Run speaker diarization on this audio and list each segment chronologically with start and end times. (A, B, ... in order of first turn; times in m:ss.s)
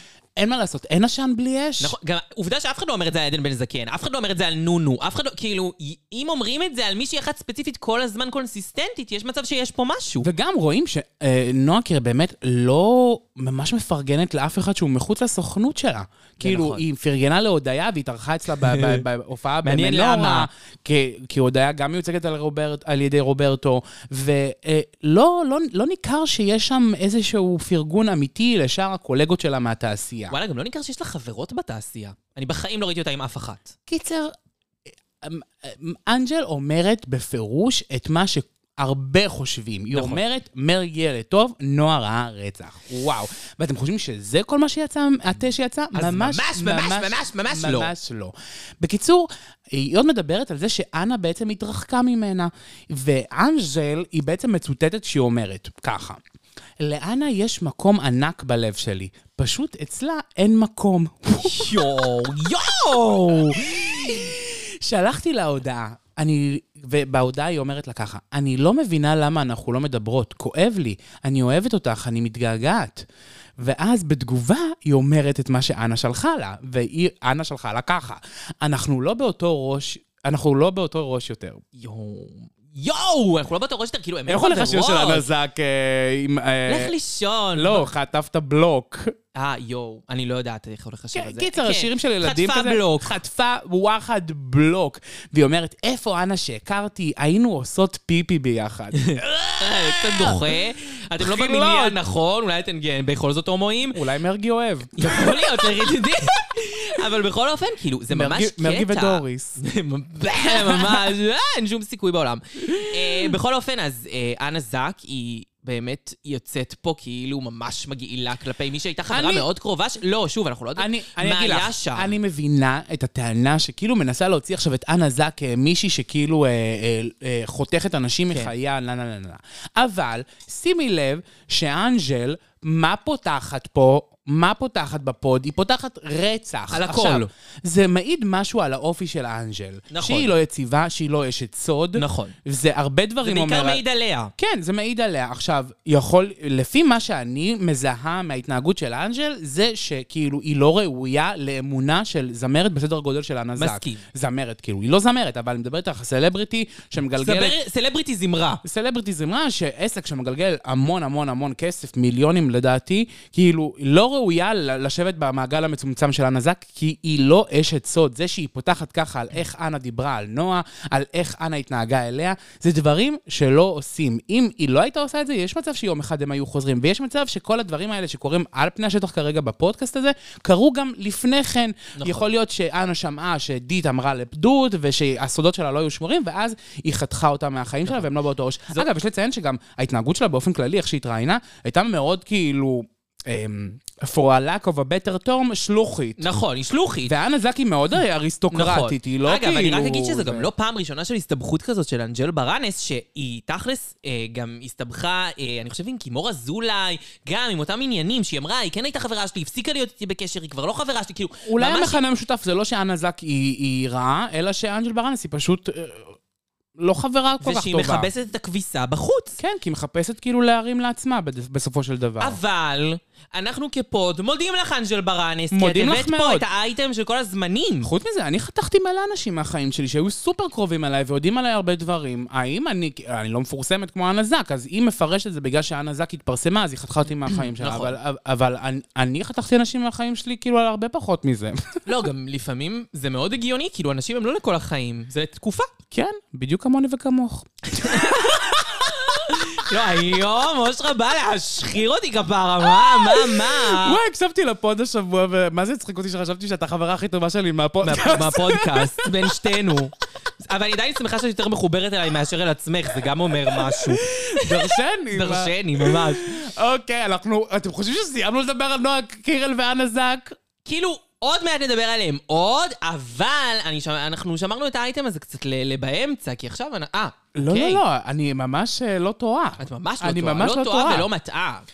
0:00.4-0:01.9 A
0:01.8-0:10.3 B
0:10.2-0:30.4 A
0:16.4-0:16.8 B
0:18.6-0:19.0 B
0:19.6-0:20.5 B
0:30.3-0:33.7 B
0:33.9-0:34.3 A
0:35.2-0:56.2 A
0:39.9-0:40.2 B
0:45.9-0:47.9 B
0:56.8-1:02.1 A
1:01.4-1:04.3 B
1:03.4-1:13.0 A
1:13.6-1:21.6 A
1:21.8-1:25.2 B
1:24.3-1:26.9 A
1:26.7-1:27.9 B
1:27.5-1:29.1 A
1:29.4-1:33.2 B
1:31.1-1:40.5 A
1:39.0-1:44.0 B
1:41.2-1:42.0 A
1:43.9-1:46.0 A
1:45.0-2:02.2 B
1:48.1-1:49.6 A
1:50.4-1:51.1 A
1:52.6-1:53.3 A
1:59.1-1:59.4 A
2:00.8-2:23.8 A
2:16.7-2:17.3 B
2:19.9-2:20.3 B
2:21.9-2:22.3 B
2:23.2-2:24.3 B
2:24.4-2:37.6 A
2:33.6-2:34.0 B
2:37.2-2:38.6 B
2:38.6-3:16.2 A
3:02.0-3:02.3 B
3:16.2-3:17.1 B
3:17.0-3:20.5 A
3:18.5-3:32.0 B
3:31.4-3:36.2 A
3:36.8-3:38.1 A
3:37.4-3:39.4 B
3:39.4-3:42.4 A
3:42.2-3:47.9 B
3:45.5-3:46.4 A
3:47.8-4:01.6 A
3:57.3-3:57.9 B
4:01.8-4:05.7 B
4:05.9-4:09.7 A
4:07.7-4:14.0 B
4:12.7-4:19.7 A
4:17.8-4:26.3 B
4:23.5-4:30.3 A
4:30.6-4:37.8 B
4:37.3-4:41.1 A
4:39.6-4:41.6 B